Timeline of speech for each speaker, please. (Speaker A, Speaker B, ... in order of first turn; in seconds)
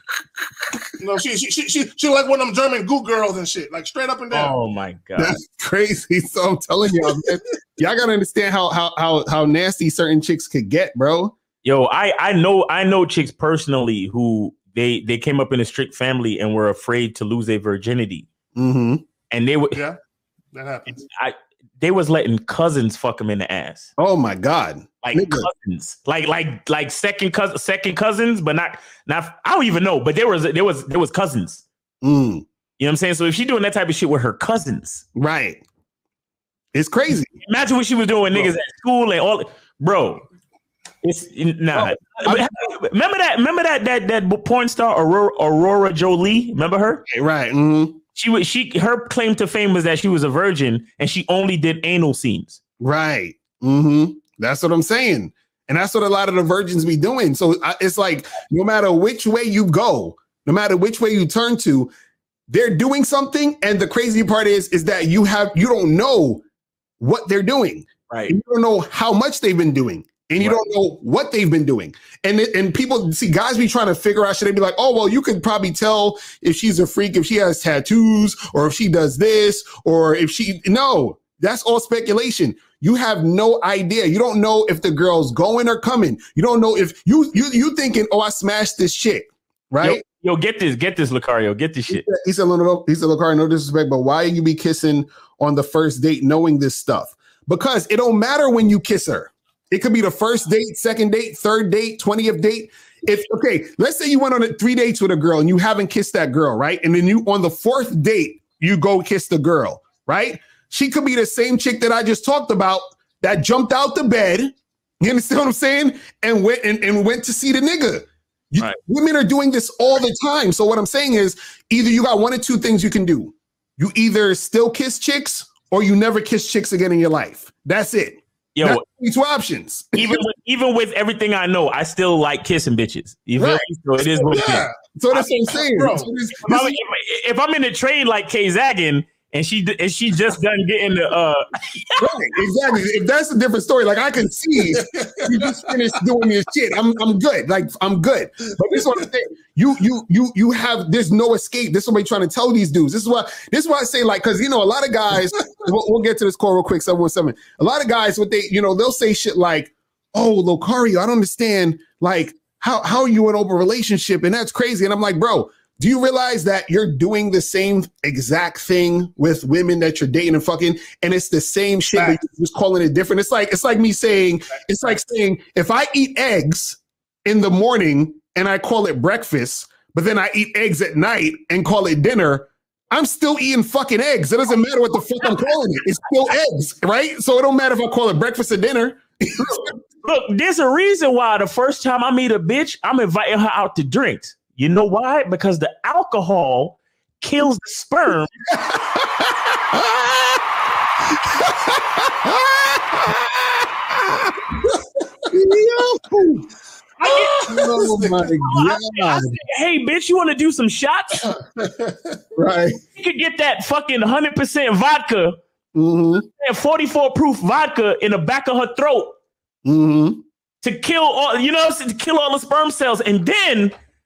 Speaker A: 1.0-4.5, 20.5-21.0, 134.2-136.1, 144.6-145.7, 148.7-149.0, 171.9-172.2, 207.0-208.2, 211.6-212.2
Speaker B: 4.3-5.4, 11.6-18.3, 19.3-19.8, 20.9-23.9, 25.0-31.6, 32.8-35.0, 37.4-40.2, 41.0-47.0, 48.1-52.6, 68.1-68.3, 89.8-92.0, 128.6-128.8, 129.9-134.7, 136.4-142.1, 190.0-198.3, 207.0-207.4, 208.4-211.3, 213.0-215.4, 216.4-219.1, 220.6-223.7
Speaker C: 5.2-11.3, 18.6-19.0, 24.0-25.5, 32.0-32.5, 35.1-35.6, 36.7-37.3, 41.7-42.5, 47.1-48.0, 52.8-61.9, 62.5-66.4, 67.0-90.0, 91.9-130.2, 133.4-133.6, 134.9-136.8, 142.0-189.7, 198.5-200.4, 201.2-204.4, 205.3-206.5, 207.4-209.4, 212.3-212.8, 215.7-216.2, 219.6-220.2